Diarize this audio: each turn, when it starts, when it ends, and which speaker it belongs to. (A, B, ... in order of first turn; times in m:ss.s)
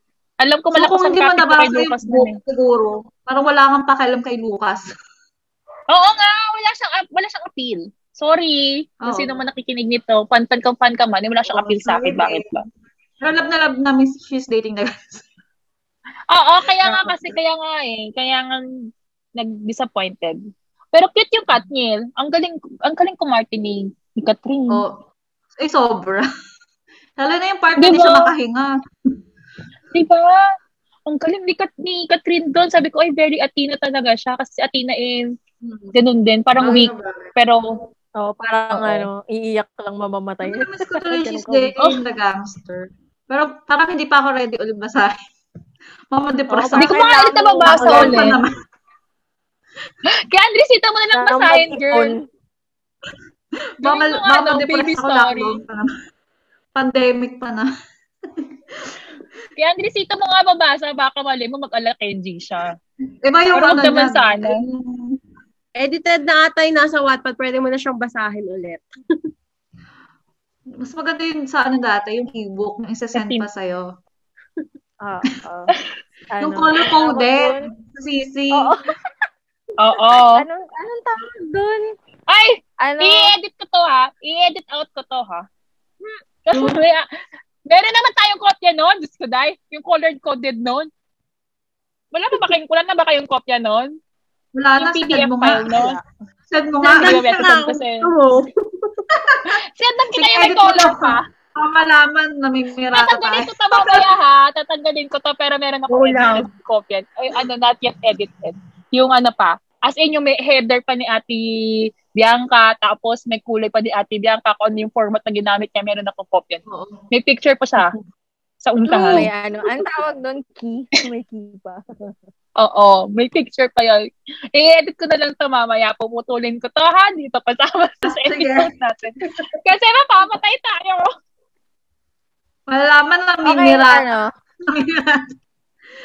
0:00.4-0:02.4 A
0:00.7-0:04.8 B
0:05.9-0:12.6 A
0:09.0-0:09.4 B
0:11.5-0:12.5 B
0:13.2-0:15.3 B
0:16.3-0:18.6 A
0:16.8-0:17.2 C
0:19.4-0:20.4 A
0:20.9-0:24.8 A
0:24.7-0:25.0 B
0:25.6-0:26.2 B
0:27.2-0:28.7 B
0:27.8-0:28.3 A
0:29.9-0:30.4 A
0:31.0-0:35.3 A
0:35.6-0:36.0 B
0:35.9-0:37.6 A
0:36.6-0:37.3 B
0:38.2-0:41.8 D
0:38.7-0:39.1 A
0:40.4-0:45.1 B
0:46.1-0:48.5 B
0:46.5-0:48.3 D
0:46.8-0:48.4 A
0:50.3-0:52.1 A
0:51.1-0:52.2 D
0:53.8-0:55.9 B
0:53.8-0:55.6 A
0:56.7-0:57.7 B
0:58.4-0:58.9 B
0:59.6-1:02.7 A
1:03.2-1:05.2 B
1:03.6-1:04.6 A
1:05.8-1:08.9 C
1:10.8-1:13.9 B
1:13.1-1:13.4 A
1:15.0-1:15.7 D
1:16.3-1:17.7 D
1:16.4-1:18.7 B
1:19.8-1:20.4 A
1:20.4-1:22.0 D
1:22.3-1:25.4 A
1:22.8-1:23.3 D
1:26.4-1:27.1 A
1:26.5-1:26.8 B
1:27.7-1:30.9 A
1:32.1-1:33.9 A
1:34.5-1:35.9 B
1:34.8-1:36.0 A
1:35.7-1:36.0 D
1:36.5-1:37.4 B
1:36.8-1:39.3 C
1:36.9-1:38.0 A
1:39.5-1:41.2 A
1:40.1-1:44.1 B
1:42.9-1:51.4 A
1:45.9-1:46.5 C
1:52.0-1:58.0 A
1:56.7-1:57.0 B
1:58.6-1:59.3 A
1:58.9-2:02.1 D
2:02.6-2:04.0 A
2:04.5-2:11.1 A
2:08.0-2:08.7 B
2:12.7-2:14.1 B
2:13.4-2:14.3 D
2:14.7-2:15.3 B